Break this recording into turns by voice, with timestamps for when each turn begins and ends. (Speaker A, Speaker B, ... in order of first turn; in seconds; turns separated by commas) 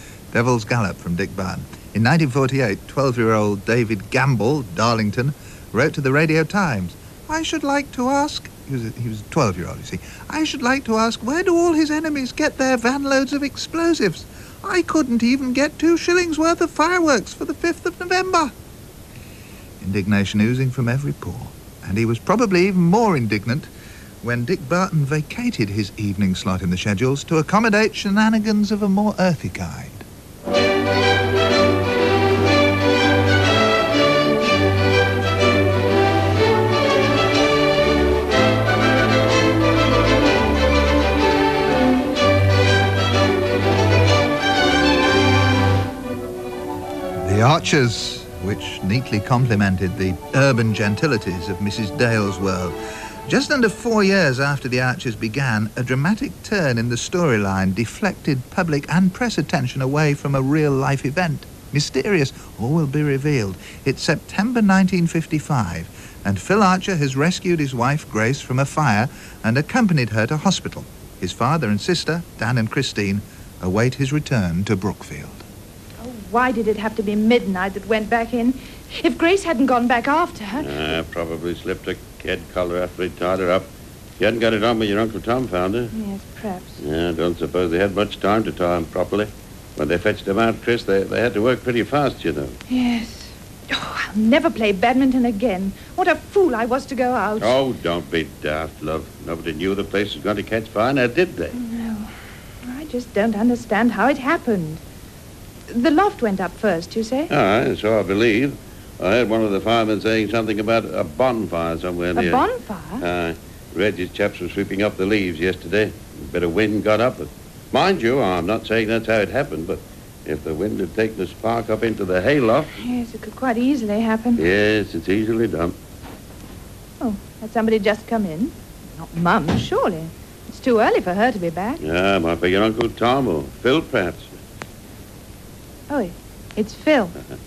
Speaker A: 0.3-18.5, Speaker A: 19.8-23.7, Speaker A: 24.2-30.0, Speaker A: 47.2-52.7, Speaker A: 53.3-75.4, Speaker B: 76.0-80.6, Speaker C: 80.6-85.9, Speaker B: 85.9-86.8, Speaker C: 86.8-92.6, Speaker B: 92.7-97.5, Speaker C: 97.4-101.6, Speaker B: 101.5-102.1, Speaker B: 102.6-104.8, Speaker B: 105.7-107.3, Speaker C: 107.3-112.5, Speaker B: 112.1-113.0, Speaker C: 113.0-122.7, Speaker B: 122.8-124.4, Speaker C: 124.3-125.8, Speaker B: 127.0-131.8, Speaker C: 131.8-134.3, Speaker B: 135.9-137.1